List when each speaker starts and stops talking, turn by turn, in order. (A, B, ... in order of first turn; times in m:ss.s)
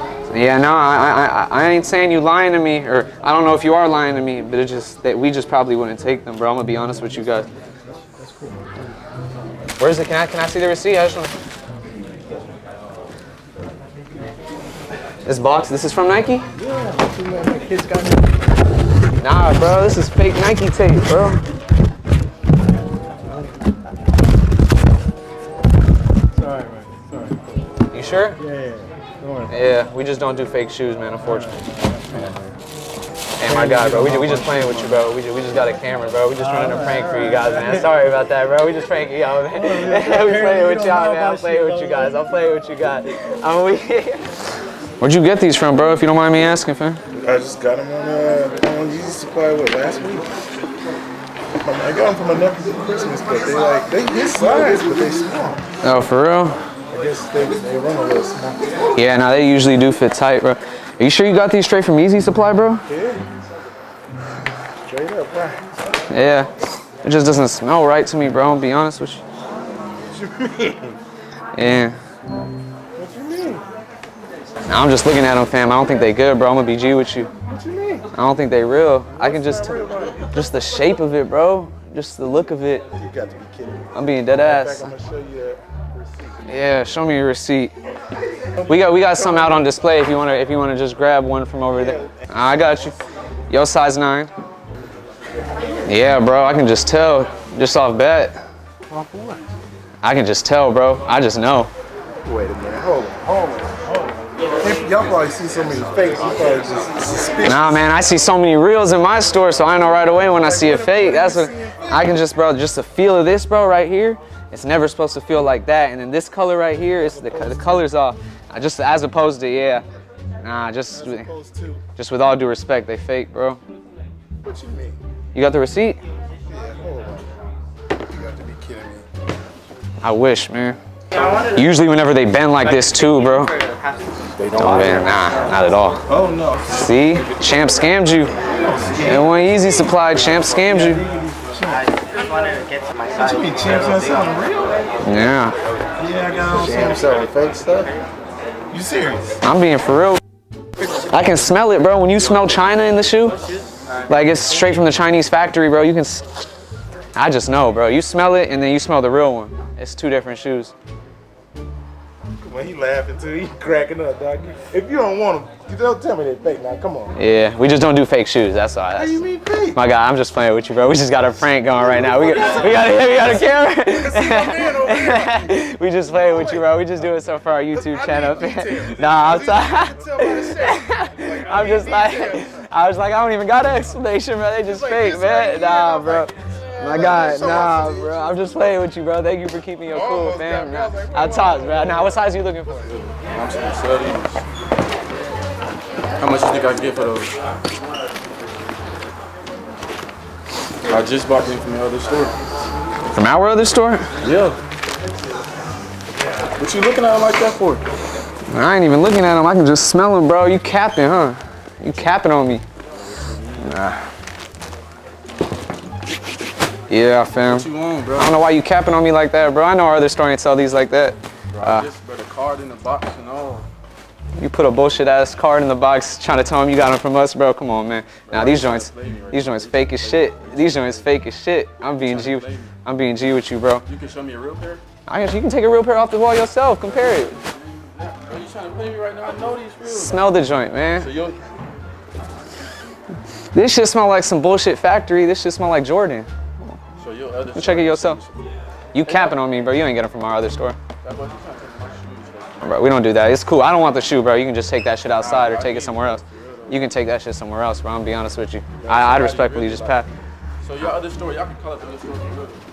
0:00.3-0:07.5 A
0:08.1-0:08.9 B
0:09.8-0:11.3 A
0:15.2-0:16.5 A
0:16.6-0:18.3 B
0:19.2-0:21.4 A
0:26.4-0:27.4 B
0:27.9-0:28.4 A
0:28.4-0:29.6 B
0:29.5-0:31.5 A
0:31.2-0:32.5 B
0:33.4-0:44.2 A
0:33.4-0:35.0 B
0:36.4-0:37.9 B
0:39.5-0:42.3 B
0:45.0-0:47.0 A
0:47.1-0:50.3 C
0:51.6-0:55.6 C
0:55.8-0:56.6 A
0:56.9-0:58.6 C
0:59.0-1:02.8 A
1:02.8-1:03.2 C
1:04.8-1:05.6 C
1:06.1-1:06.5 A
1:07.0-1:09.2 A
1:10.1-1:10.9 C
1:11.5-1:12.0 A
1:13.0-1:13.6 C
1:14.7-1:17.3 A
1:17.5-1:18.0 C
1:18.1-1:22.8 A
1:19.1-1:20.4 C
1:22.9-1:26.5 C
1:23.9-1:24.9 A
1:26.5-1:27.7 A
1:28.6-1:29.7 C
1:28.7-1:33.0 A
1:31.7-1:32.1 C
1:33.5-1:34.3 A
1:35.8-1:38.4 A
1:40.0-1:41.7 A
1:42.2-1:43.8 C
1:44.6-1:47.9 C
1:47.4-1:59.8 A
1:50.2-1:52.1 C
1:57.0-1:57.8 C
2:00.4-2:01.3 A
2:00.9-2:01.8 C
2:02.0-2:03.6 A
2:04.4-2:05.0 C
2:05.3-2:06.0 A
2:06.5-2:07.3 C
2:08.0-2:09.0 C
2:10.0-2:10.8 A
2:11.2-2:11.5 D
2:11.5-2:13.5 A
2:12.6-2:14.2 D
2:14.3-2:15.1 C
2:14.6-2:16.0 A
2:16.1-2:16.6 C
2:16.7-2:18.3 A
2:18.6-2:19.2 C
2:19.0-2:21.0 A
2:20.7-2:21.8 C
2:21.7-2:24.3 D
2:23.2-2:24.8 C
2:25.0-2:25.6 A
2:26.0-2:27.9 C
2:28.7-2:29.2 C
2:29.4-2:30.2 A
2:31.1-2:33.4 A
2:34.1-2:36.3 A
2:37.1-2:40.7 A
2:42.4-2:47.2 C
2:47.1-3:12.9 A
2:48.9-2:49.8 C
2:51.8-2:55.5 C
2:56.1-2:56.7 C
2:57.7-3:02.6 C
3:04.6-3:08.6 C
3:09.9-3:12.3 C
3:13.3-3:14.4 E
3:16.2-3:17.3 E
3:20.9-3:22.3 E
3:23.1-3:24.0 A
3:24.2-3:24.6 E
3:26.6-3:27.8 E
3:28.5-3:32.6 A
3:32.9-3:33.7 E
3:33.6-3:34.1 A
3:36.9-3:41.9 A
3:37.5-3:38.4 E
3:41.5-3:43.6 E
3:44.4-3:53.8 A
3:48.3-3:51.1 E
3:52.0-3:52.7 E
3:53.8-3:54.8 E
3:55.1-3:57.4 A
3:57.4-4:00.3 E
3:59.8-4:01.1 A
4:01.0-4:01.4 E
4:03.5-4:06.3 A
4:07.0-4:08.4 E
4:07.5-4:08.2 A
4:08.9-4:10.8 A
4:09.0-4:09.3 E
4:11.0-4:12.7 E
4:12.6-4:20.1 A
4:15.2-4:16.9 E
4:18.8-4:20.0 E
4:20.6-4:22.6 E